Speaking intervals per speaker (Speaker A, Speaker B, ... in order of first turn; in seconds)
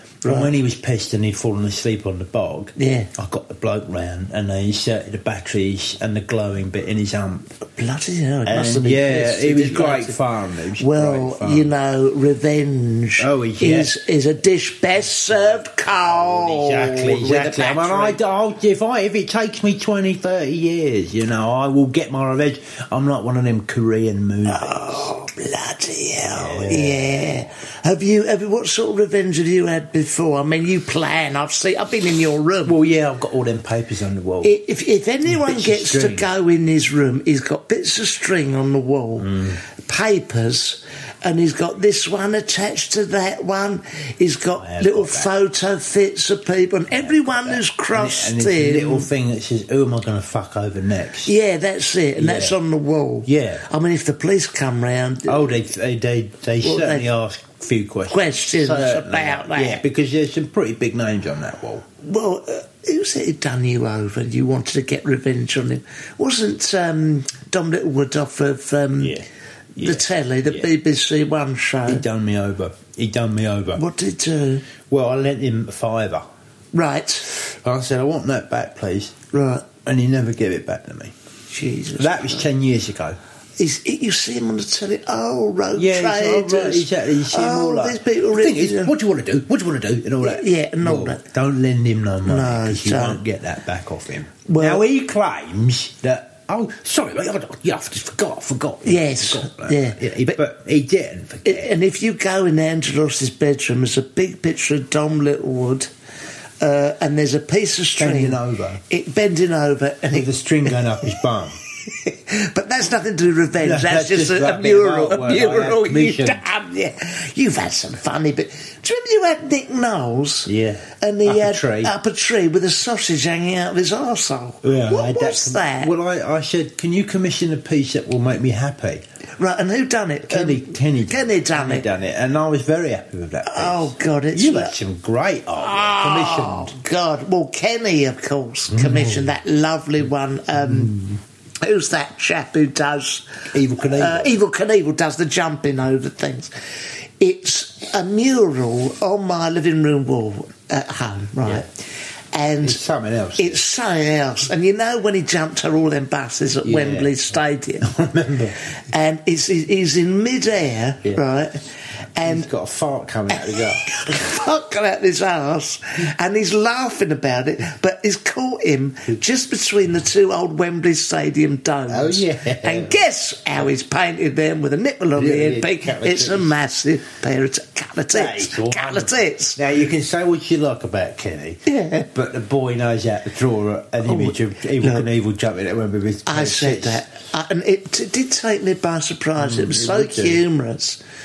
Speaker A: 0.2-0.5, 2.8-3.1, 7.8-10.2, 10.8-18.2, 24.5-32.8, 34.4-49.1, 51.2-55.6, 56.6-57.1, 58.1-59.8, 62.0-69.2, 69.8-72.0, 73.7-74.7, 76.7-77.3, 79.3-79.7, 81.5-82.5, 83.6-88.9, 90.2-91.2, 92.2-93.2, 94.5-94.9, 98.8-100.4, 101.5-105.9, 106.6-110.8, 111.9-125.9, 129.4-131.9, 133.5-134.8, 135.6-141.0, 141.6-146.5, 147.2-151.7, 152.3-152.8, 153.4-157.9, 158.9-161.6, 162.2-162.5, 163.3-179.6, 181.7-182.1, 184.0-185.1, 186.3-191.0
Speaker B: 0.2-7.5, 8.4-11.7, 13.2-13.9, 16.1-25.1, 26.3-27.1, 32.6-34.6, 35.3-36.3, 39.2-39.6, 44.6-45.3, 46.9-51.3, 52.2-52.6, 53.2-53.6, 55.3-61.9, 69.0-69.3, 69.8-70.7, 71.9-73.8, 74.9-76.2, 77.5-79.2, 79.8-81.1, 82.0-83.2, 85.7-101.7, 108.0-108.8, 110.1-111.6, 113.6-116.4, 120.5-121.9, 124.6-129.0, 130.3-136.8, 138.7-139.3, 140.6-141.1, 143.5-144.3, 152.6-153.6, 156.6-157.2, 157.8-158.6, 162.2-164.0, 171.9-173.0, 175.2-176.5, 178.1-181.6, 182.1-187.0, 189.4-190.4